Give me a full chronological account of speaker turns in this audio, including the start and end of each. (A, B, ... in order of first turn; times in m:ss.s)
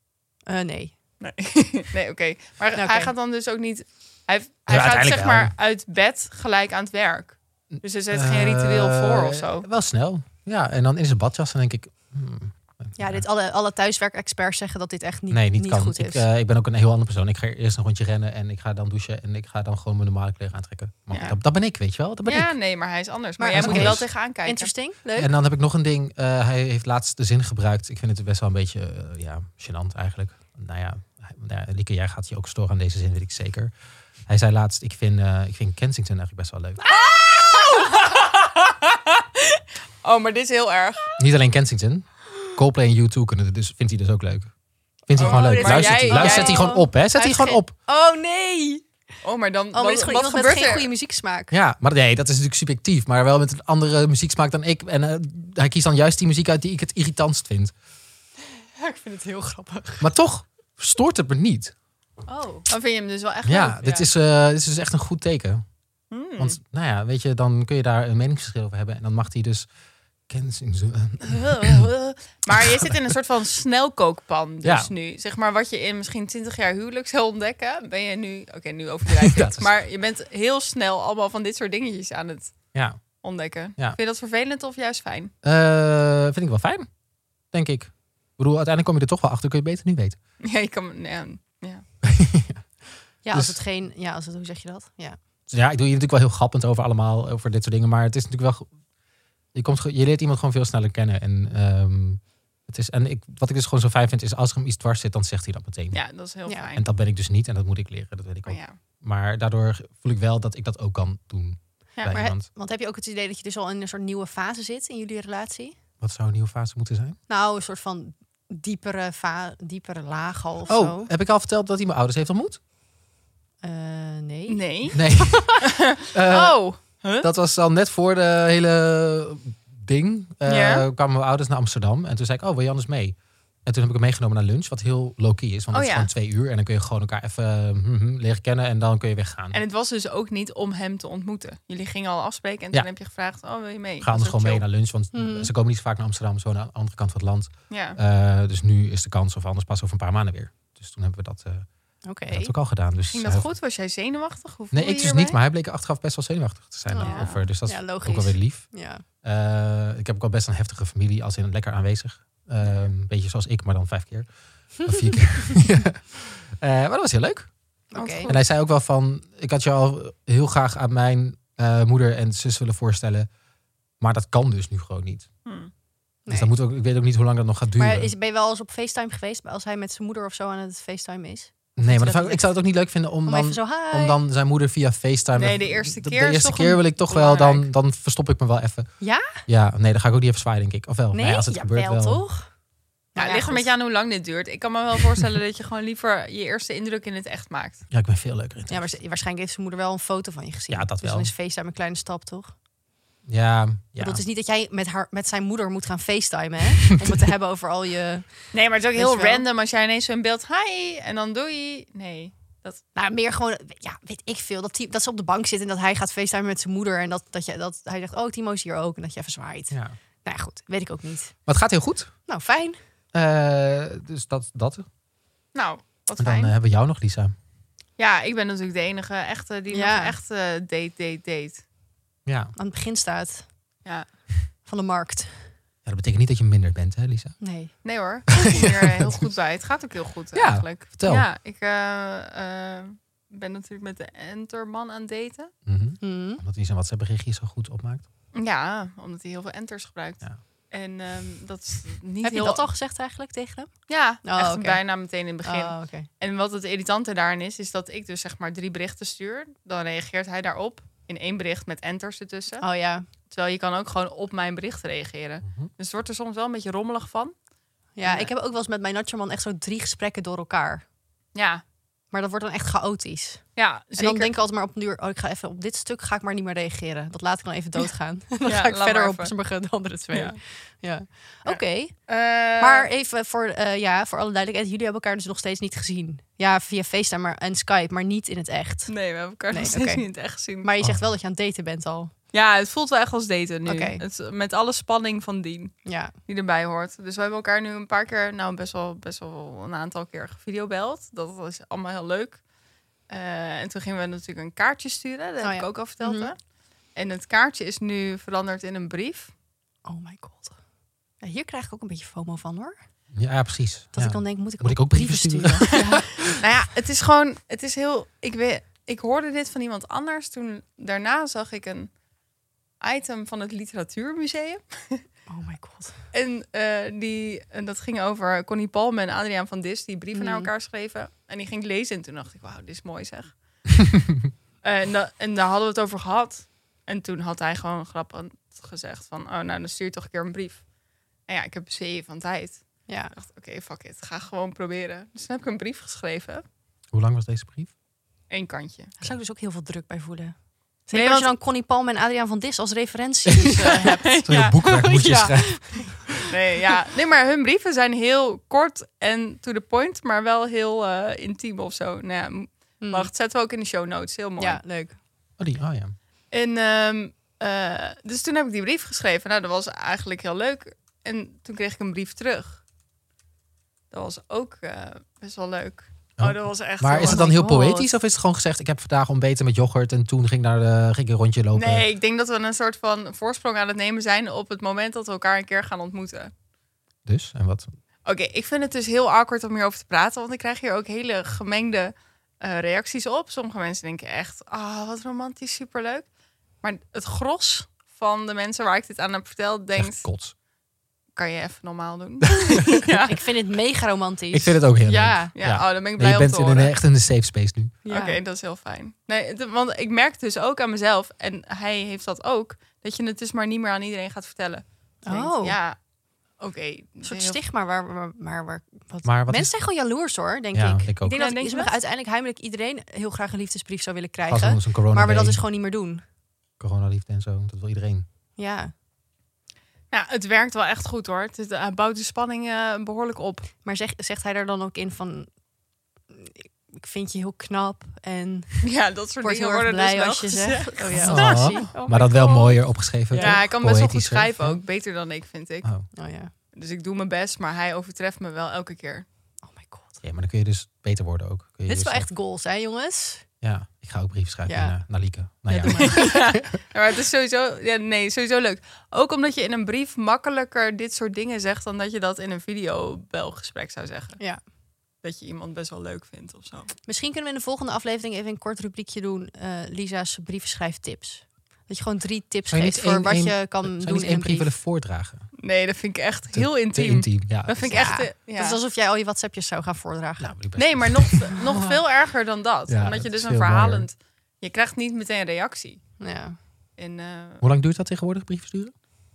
0:00.5-0:00.9 A
0:01.2-0:09.7 B
0:02.7-0:03.1 A
0:04.7-0:05.5 C
0:07.7-0:13.2 C
0:13.0-0:16.2 A
0:15.3-0:22.5 C
0:21.1-0:21.4 B
0:22.2-0:24.7 B
0:23.4-0:25.3 A
0:23.5-0:24.1 C
0:25.2-0:33.7 C
0:34.3-0:36.8 C
0:36.9-0:41.1 B
0:41.2-0:44.5 C
0:45.1-0:47.7 C
0:45.2-0:46.7 B
0:45.2-0:48.8 A
0:49.2-0:50.9 B
0:49.7-0:51.5 A
0:51.5-0:57.7 C
0:58.8-1:00.1 A
1:00.0-1:01.7 C
1:02.3-1:02.7 A
1:02.7-1:04.1 B
1:03.4-1:05.6 C
1:06.1-1:06.6 B
1:06.4-1:09.7 C
1:10.3-1:11.9 C
1:11.2-1:22.7 B
1:12.5-1:13.0 C
1:14.6-1:14.9 C
1:19.2-1:19.7 C
1:22.7-1:23.0 C
1:23.2-1:25.3 B
1:25.4-1:26.9 C
1:27.5-1:30.2 C
1:30.4-1:31.8 B
1:32.0-1:32.7 C
1:33.2-1:35.2 A
1:33.3-1:33.6 C
1:35.5-1:38.7 C
1:39.5-1:46.0 C
1:45.9-1:46.8 B
1:46.7-1:52.5 C
1:48.4-1:48.7 B
1:52.1-1:55.8 A
1:56.0-1:57.2 C
1:57.3-2:01.1 A
2:00.7-2:02.6 C
2:03.6-2:05.3 A
2:04.5-2:07.3 B
2:04.9-2:19.6 C
2:10.4-2:10.8 B
2:15.7-2:16.1 B
2:19.5-2:24.6 B
2:24.0-2:31.7 C
2:25.1-2:25.5 A
2:27.7-2:28.0 B
2:32.0-2:32.5 A
2:32.3-2:33.5 C
2:33.1-2:35.4 B
2:34.7-2:44.3 C
2:36.9-2:39.0 A
2:37.0-2:37.4 B
2:42.6-2:42.9 B
2:44.8-2:47.5 C
2:47.9-2:48.3 A
2:47.9-2:48.4 B
2:48.2-2:53.3 C
2:54.0-2:55.3 C
2:55.4-2:55.7 B
2:56.2-2:56.5 A
2:56.3-2:58.1 C
2:57.8-3:02.5 A
3:01.8-3:08.9 C
3:03.2-3:04.2 A
3:05.3-3:07.7 B
3:09.0-3:09.4 A
3:09.4-3:12.2 C
3:11.1-3:12.5 A
3:13.1-3:13.7 A
3:13.2-3:17.8 B
3:17.9-3:18.9 C
3:18.7-3:22.5 A
3:20.7-3:21.3 C
3:23.2-3:24.2 C
3:24.0-3:29.4 A
3:28.5-3:32.8 B
3:32.9-3:41.3 A
3:39.7-3:40.0 C
3:41.4-3:42.1 C
3:42.3-3:42.8 A
3:43.1-3:44.8 C
3:45.5-3:46.5 B
3:46.2-3:47.3 C
3:48.0-3:51.6 B
3:49.7-3:50.2 A
3:52.2-3:52.5 C
3:52.6-3:53.5 A
3:54.6-3:55.4 A
3:55.8-3:57.4 C
3:57.4-3:57.7 A
3:57.8-4:05.5 B
3:58.5-3:59.3 C
4:00.3-4:01.2 C
4:05.6-4:08.0 C
4:06.0-4:06.4 A
4:08.3-4:12.6 B
4:12.2-4:14.8 A
4:13.9-4:22.7 B
4:15.4-4:16.1 A
4:22.6-4:23.1 A
4:23.2-4:27.3 B
4:28.0-4:30.8 A
4:28.0-4:28.3 B
4:31.3-4:31.6 B
4:32.1-4:33.4 A
4:33.6-4:34.4 B
4:34.0-4:41.9 A
4:38.4-4:39.3 B
4:40.1-4:40.4 B
4:41.4-4:42.9 B
4:42.6-4:49.0 A
4:48.9-4:50.7 B
4:49.5-4:52.1 A
4:50.8-4:51.1 C
4:52.3-5:02.4 B
4:53.7-4:54.0 A
4:55.8-4:56.1 A
5:03.1-5:06.4 B
5:05.4-5:06.3 A
5:06.9-5:09.3 B
5:09.8-5:10.6 A
5:11.2-5:12.8 A
5:13.1-5:15.9 C
5:13.9-5:16.2 A
5:15.7-5:21.9 B
5:22.8-5:25.0 B
5:25.3-5:26.0 A
5:26.1-5:33.4 B
5:30.1-5:30.5 A
5:34.6-5:40.6 B
5:41.3-5:46.4 B
5:42.9-5:43.1 A
5:46.9-5:47.7 C
5:48.3-5:48.9 B
5:49.0-5:50.3 A
5:50.8-5:56.0 A
5:50.9-5:51.3 B
5:53.3-5:56.2 C
5:53.6-5:54.6 B
5:56.3-6:04.6 B
6:02.8-6:03.1 A
6:04.4-6:05.0 A
6:05.4-6:05.9 C
6:06.3-6:12.6 B
6:13.9-6:17.2 B
6:16.2-6:21.8 C
6:17.0-6:17.9 A
6:21.5-6:26.3 B
6:27.0-6:27.7 C
6:28.0-6:36.1 B
6:36.6-6:40.0 B
6:39.8-6:40.3 C
6:41.1-6:43.2 B
6:43.0-6:45.3 A
6:44.3-6:47.8 C
6:45.3-6:46.8 B
6:47.8-6:55.8 B
6:47.9-6:48.2 A
6:55.0-6:55.6 A
6:56.4-6:57.4 B
6:57.0-7:06.0 A
6:59.0-6:59.5 C
7:00.5-7:01.2 C
7:01.0-7:01.8 B
7:04.3-7:05.4 C
7:06.6-7:08.0 C
7:08.4-7:08.7 A
7:09.9-7:13.5 B
7:13.6-7:15.3 A
7:16.1-7:23.4 A
7:18.6-7:21.7 B
7:21.0-7:24.6 C
7:23.1-7:25.9 B
7:25.9-7:26.3 A
7:26.5-7:29.0 B
7:29.4-7:29.9 A
7:30.0-7:32.1 C
7:31.7-7:33.2 A
7:33.4-7:36.2 C
7:34.5-7:34.8 A
7:35.5-7:36.1 A
7:35.6-7:44.2 B
7:45.0-7:46.7 B
7:46.8-7:54.5 A
7:52.5-7:55.3 C
7:55.4-7:58.6 B
7:56.3-7:57.7 C
7:57.6-8:00.3 A
8:00.2-8:01.2 C
8:00.6-8:05.8 B
8:01.4-8:01.7 A
8:02.7-8:03.9 C
8:06.0-8:06.4 A
8:06.8-8:07.4 B
8:07.4-8:08.7 C